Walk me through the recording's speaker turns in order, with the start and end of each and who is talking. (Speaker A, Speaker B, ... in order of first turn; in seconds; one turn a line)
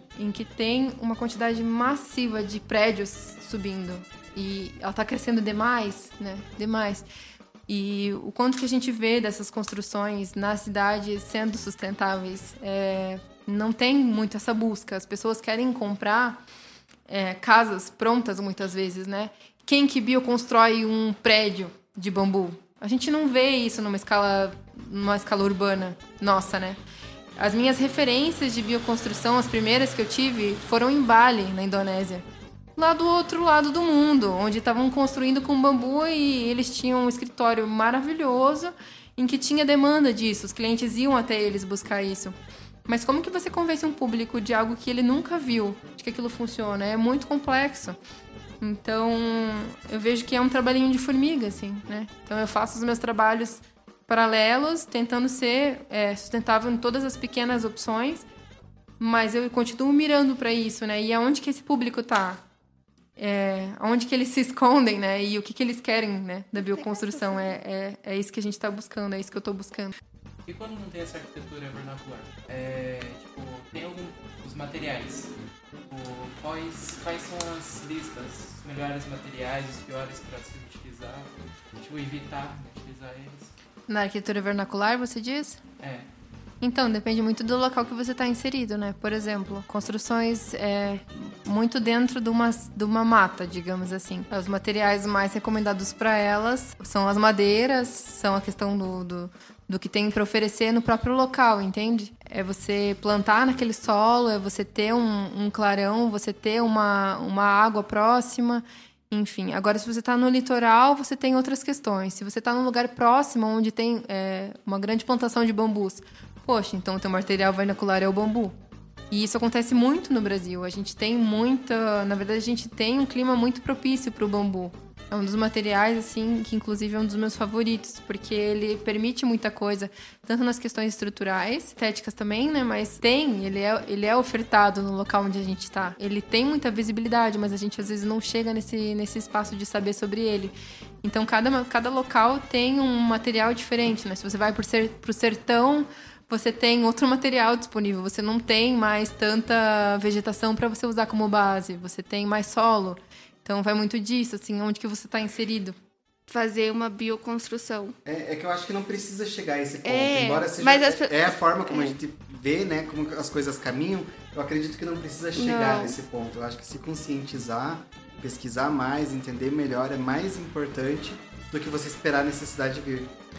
Speaker A: 0.2-7.1
Speaker A: 7.7-16.4
Speaker A: 17.1-26.8
Speaker A: 27.4-32.2
Speaker A: 32.8-42.4
Speaker A: 42.9-48.0
Speaker A: 48.6-58.3
Speaker A: 59.0-62.4
Speaker A: 63.2-70.0
Speaker B: 66.6-67.5
Speaker C: 70.5-75.3
Speaker C: 75.9-83.5
Speaker A: 83.9-85.6
Speaker C: 85.8-86.1
Speaker A: 86.6-118.6
Speaker A: 119.1-155.8
Speaker B: 156.3-158.0
Speaker D: 158.1-173.1
Speaker B: 159.8-162.0
Speaker B: 165.4-166.0